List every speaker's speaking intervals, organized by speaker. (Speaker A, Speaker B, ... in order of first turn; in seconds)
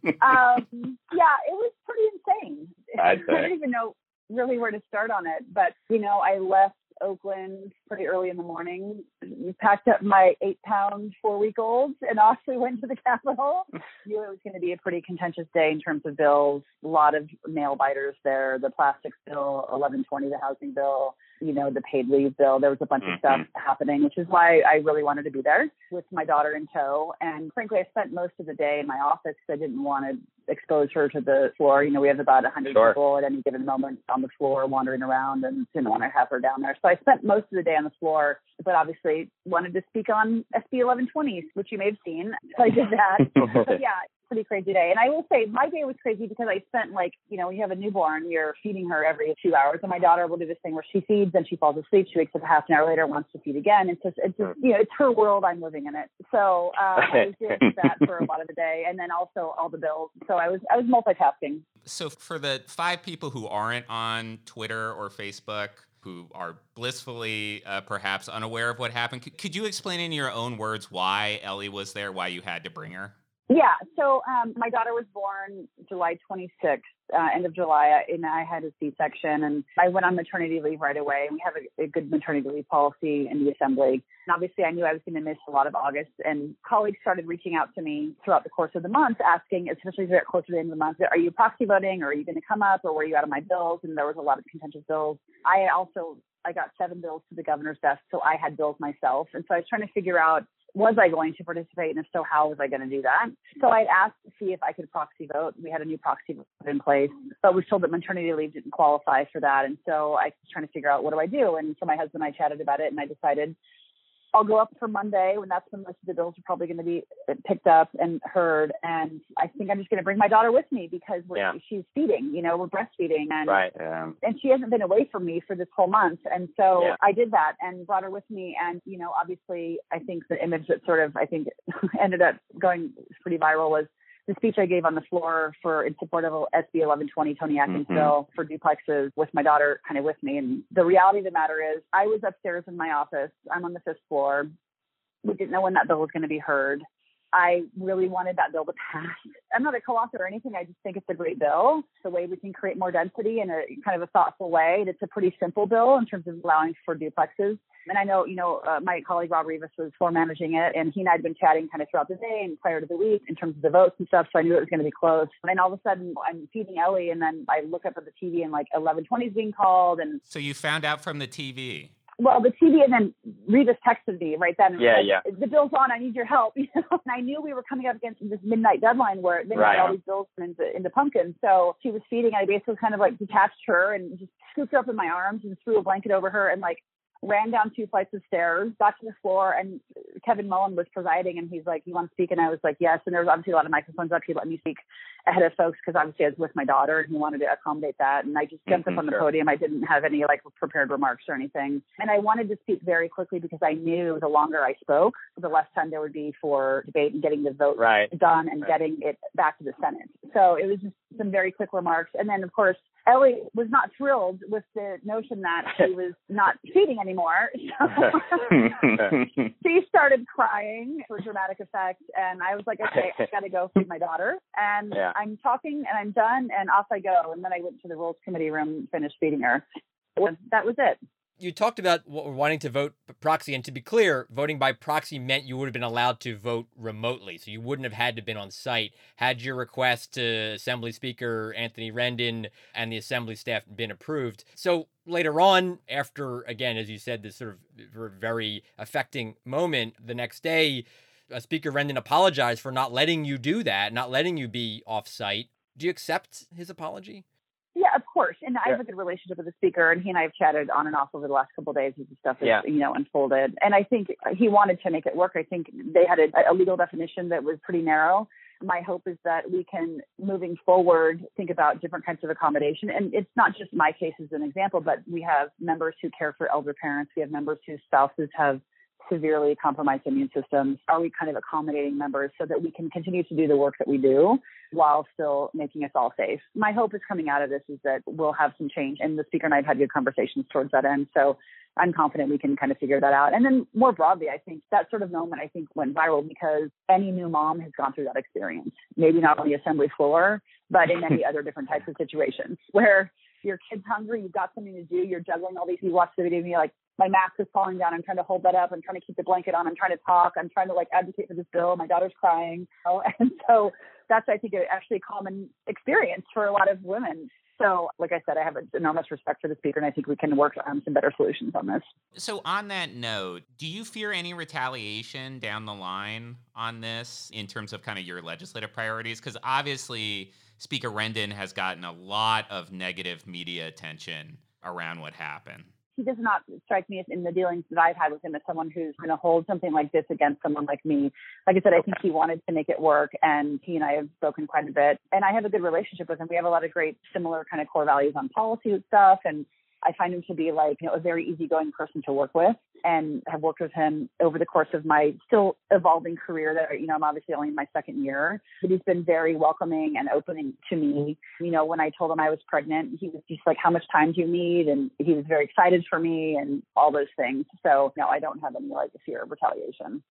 Speaker A: 0.2-61.6, 73.5-113.5, 114.3-123.7, 124.2-144.5, 145.2-170.2, 172.2-218.7, 219.6-229.6, 230.2-231.0, 257.7-321.8, 335.9-370.0
Speaker B: 3.0-3.5, 32.7-33.0, 43.3-43.8, 57.0-58.1, 123.5-124.1, 137.7-138.1, 174.8-175.2, 179.5-179.9, 198.7-199.2, 207.8-208.1, 218.5-219.3
Speaker C: 61.8-73.1, 170.3-171.9, 322.1-335.7
Speaker D: 231.4-257.2